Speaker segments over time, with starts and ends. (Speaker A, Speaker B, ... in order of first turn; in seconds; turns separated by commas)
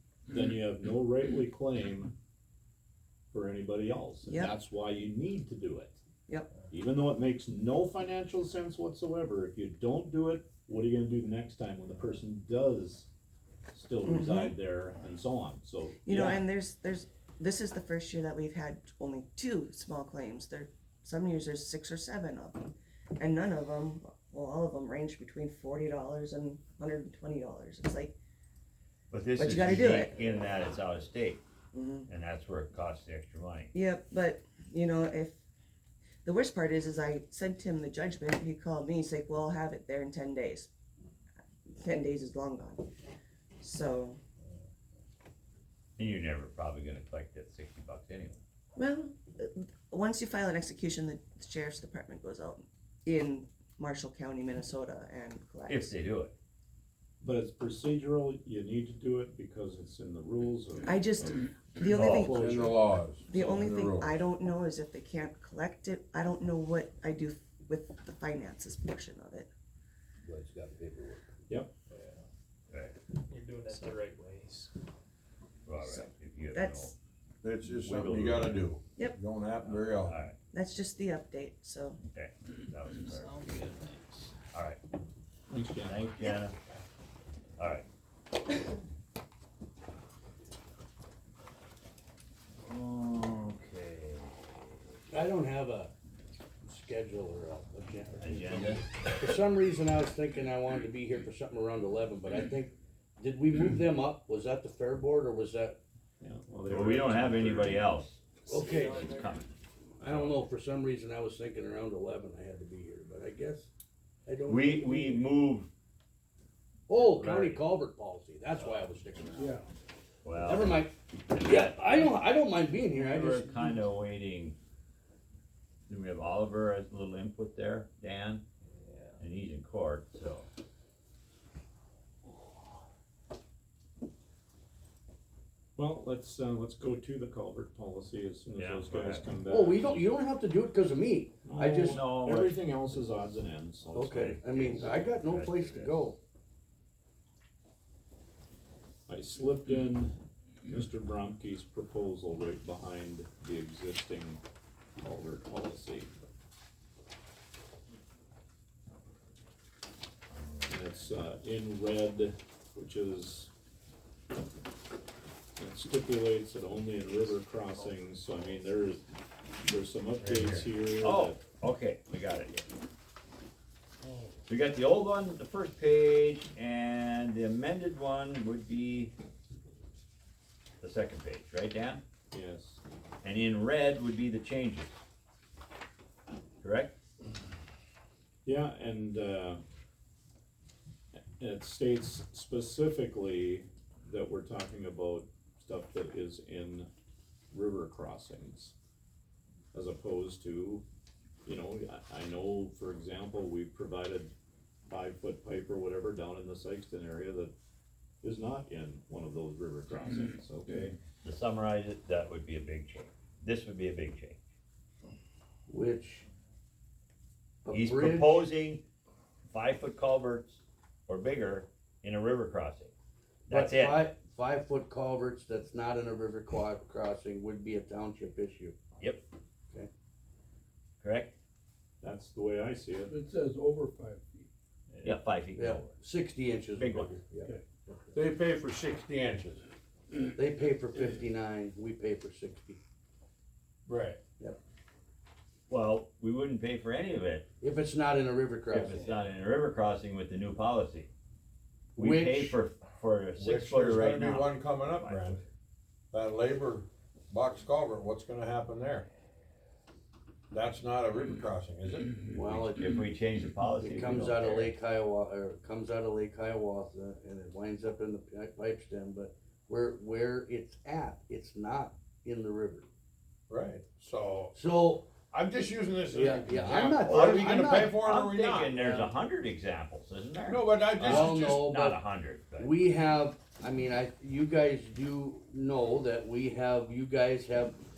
Speaker A: 0.3-2.1, Speaker A: 3.3-6.0, Speaker B: 4.3-4.5, Speaker A: 6.7-13.1, Speaker A: 13.7-16.4, Speaker B: 14.0-14.5, Speaker B: 16.0-28.1, Speaker C: 29.1-31.4, Speaker B: 29.4-30.1, Speaker B: 31.7-32.1, Speaker C: 32.1-33.7, Speaker B: 33.7-35.4, Speaker B: 36.2-40.7, Speaker B: 41.8-42.9, Speaker B: 43.6-44.2, Speaker C: 46.0-48.4, Speaker B: 48.8-55.9, Speaker C: 55.7-56.3, Speaker A: 57.2-62.7, Speaker B: 60.9-69.5, Speaker C: 62.0-62.3, Speaker D: 62.3-64.1, Speaker E: 70.3-70.9, Speaker F: 73.3-74.7, Speaker G: 73.7-74.2, Speaker C: 75.7-76.9, Speaker B: 75.8-76.9, Speaker D: 77.4-80.2, Speaker C: 77.8-78.6, Speaker C: 79.6-80.3, Speaker B: 80.5-82.0, Speaker C: 82.1-83.7, Speaker G: 83.1-83.9, Speaker F: 83.3-84.3, Speaker C: 84.5-84.8, Speaker A: 85.5-86.0, Speaker C: 85.8-86.5, Speaker C: 87.6-87.8, Speaker C: 92.7-94.3, Speaker E: 95.1-95.9, Speaker E: 96.6-105.8, Speaker C: 98.2-98.8, Speaker A: 106.2-107.8, Speaker C: 106.7-108.2, Speaker E: 108.5-109.2, Speaker G: 108.5-109.3, Speaker C: 109.0-109.5, Speaker E: 110.0-113.7, Speaker E: 114.3-115.2, Speaker C: 114.5-115.7, Speaker E: 116.9-119.6, Speaker C: 117.1-117.6, Speaker G: 119.3-119.7, Speaker C: 120.2-120.7, Speaker E: 120.4-123.7, Speaker C: 123.2-124.5, Speaker C: 125.9-128.4, Speaker C: 129.2-130.5, Speaker A: 135.8-140.1, Speaker C: 138.6-139.2, Speaker E: 139.4-142.0, Speaker A: 141.4-143.9, Speaker C: 141.8-142.5, Speaker C: 143.8-145.8, Speaker E: 143.9-146.2, Speaker A: 149.1-150.1, Speaker A: 150.7-154.4, Speaker A: 155.0-156.1, Speaker A: 160.7-163.5, Speaker A: 165.6-169.0, Speaker A: 169.6-171.4, Speaker D: 170.2-170.7, Speaker C: 171.0-172.6, Speaker C: 174.5-179.1, Speaker C: 180.8-182.0, Speaker A: 182.3-182.8, Speaker C: 183.2-185.0, Speaker C: 186.6-187.0, Speaker A: 188.4-189.6, Speaker A: 191.4-196.9, Speaker A: 197.5-198.7, Speaker A: 199.7-200.8, Speaker A: 201.4-204.3, Speaker A: 204.9-207.5, Speaker A: 208.2-210.9, Speaker C: 211.2-214.4, Speaker E: 215.7-216.2, Speaker E: 217.7-218.5, Speaker C: 217.7-218.8, Speaker C: 219.5-222.9, Speaker E: 223.5-228.8, Speaker C: 223.5-224.0, Speaker C: 231.0-231.3, Speaker A: 232.0-233.1, Speaker G: 233.1-234.5, Speaker C: 235.0-235.9, Speaker E: 235.6-237.9, Speaker C: 236.8-237.1, Speaker D: 238.1-239.6, Speaker E: 240.3-242.8, Speaker D: 243.9-244.2, Speaker C: 245.7-247.4, Speaker E: 247.6-249.1, Speaker C: 248.7-251.1, Speaker E: 251.9-252.6, Speaker C: 252.0-255.4, Speaker D: 253.3-255.4, Speaker D: 256.1-259.1, Speaker D: 260.5-262.3, Speaker E: 262.3-263.0, Speaker C: 262.5-264.7, Speaker E: 263.8-272.9, Speaker D: 273.5-274.5, Speaker E: 274.5-275.1, Speaker D: 275.3-279.0, Speaker E: 276.1-279.1, Speaker C: 277.1-282.7, Speaker D: 280.4-281.7, Speaker E: 281.0-282.0, Speaker E: 282.6-287.8